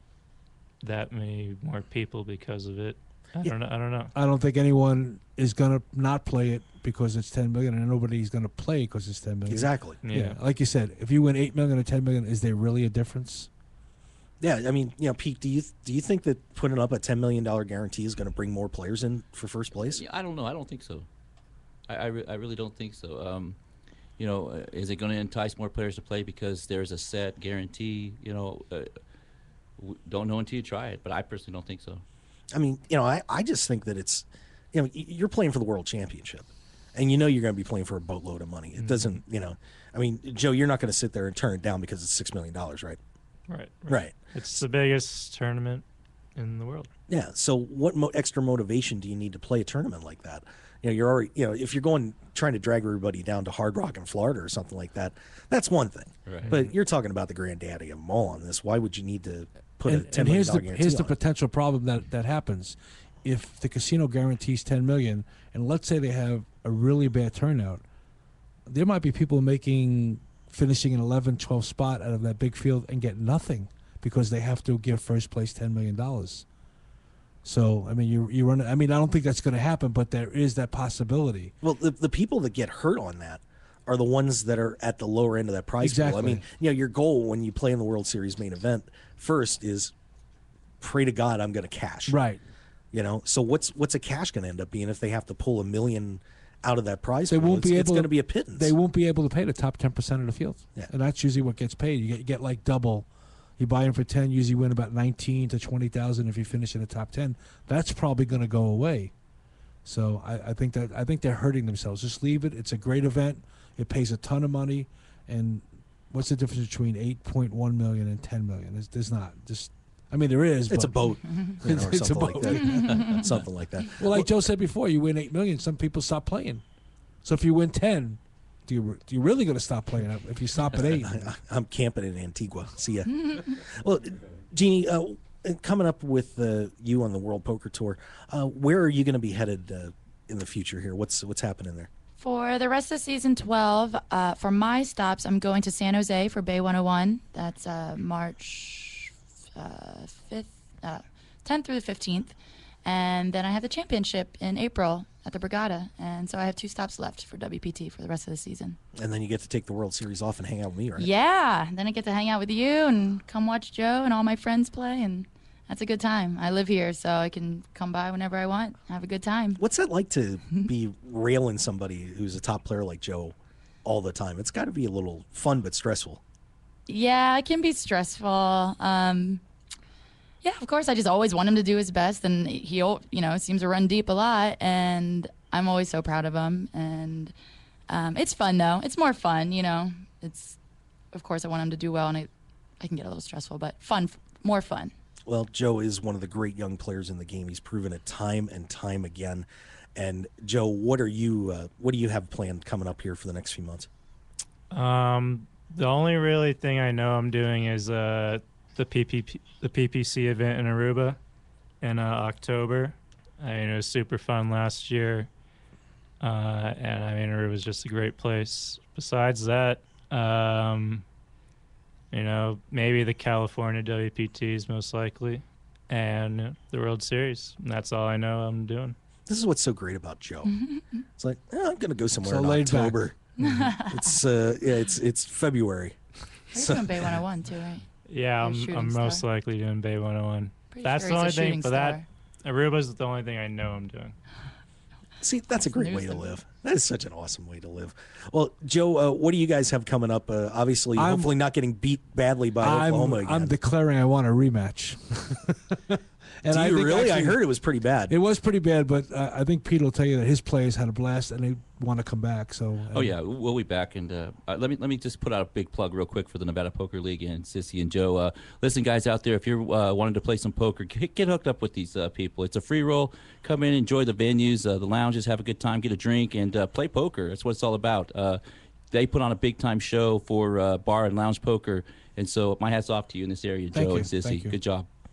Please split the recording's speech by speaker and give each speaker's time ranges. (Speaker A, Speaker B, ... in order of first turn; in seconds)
Speaker A: 0.8-4.1, 10.0-10.4, 38.8-39.2, 43.5-46.9, 56.4-56.7, 204.7-211.2, 211.8-215.3, 216.2-221.0, 222.1-228.9, 238.1-244.1
Speaker B: 4.1-13.5, 59.9-67.8, 68.7-76.4, 77.4-81.5, 85.8-86.4, 92.1-92.4, 97.3-109.1, 109.8-121.1, 121.6-123.2, 124.0-126.6, 127.2-131.3, 232.2-233.0, 250.9-251.3, 252.6-257.4, 258.1-263.2, 283.7-284.6
Speaker C: 9.5-10.0, 14.4-20.0, 32.5-43.0, 43.9-44.6, 47.1-61.1, 81.6-89.9, 90.8-92.2, 92.9-98.8, 120.7-124.3, 130.8-141.9, 158.9-161.1, 169.6-176.2, 195.2-203.9, 229.3-230.5, 231.2-233.2, 233.8-236.0, 236.5-237.1, 245.2-253.5, 256.5-258.1
Speaker D: 19.9-21.1, 21.9-23.6, 24.2-28.9, 29.8-32.0, 56.2-56.5, 262.9-284.9
Speaker E: 142.2-158.8, 160.9-169.6, 176.9-179.4, 180.4-187.3, 187.9-190.6, 191.1-192.3, 192.8-194.9, 230.5-230.8, 233.4-234.0, 236.5-237.8, 238.4-239.2, 240.7-242.0, 245.6-246.3